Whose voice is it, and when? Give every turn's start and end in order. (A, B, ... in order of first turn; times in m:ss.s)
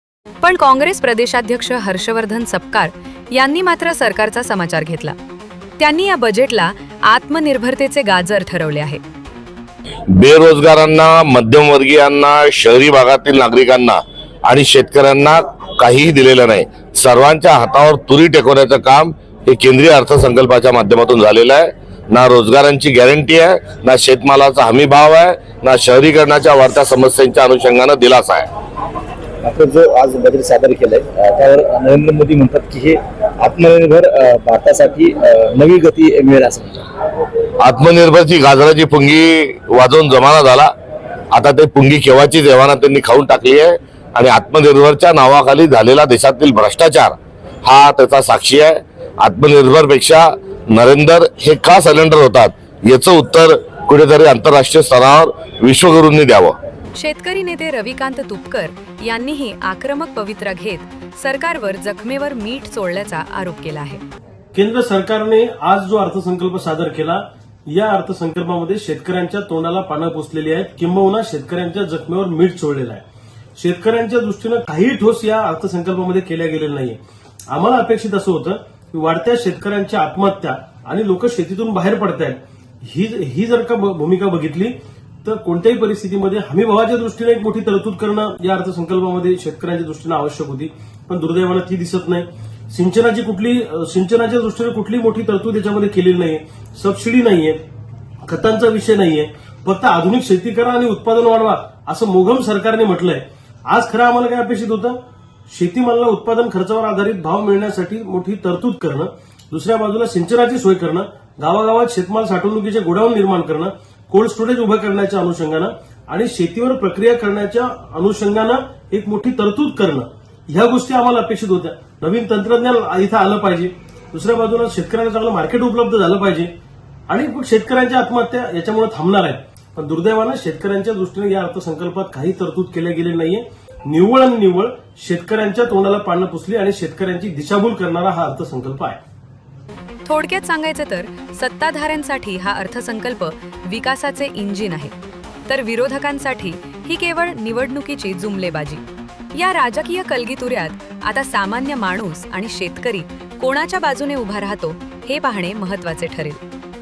0:00.4-0:05.2 A
0:05.8-0:09.0 A
0:10.1-0:28.5 B
0:29.4-0:36.9 C
0:37.6-0:40.7 B
0:41.3-0:56.6 B
0:56.9-1:04.0 A
1:04.5-1:13.0 D
1:13.6-1:17.0 D
1:17.5-1:37.6 D
1:38.2-1:45.0 D
1:45.5-2:06.5 D
2:07.1-2:19.0 D
2:20.0-2:25.0 A
2:25.5-2:28.8 A
2:29.3-2:36.4 A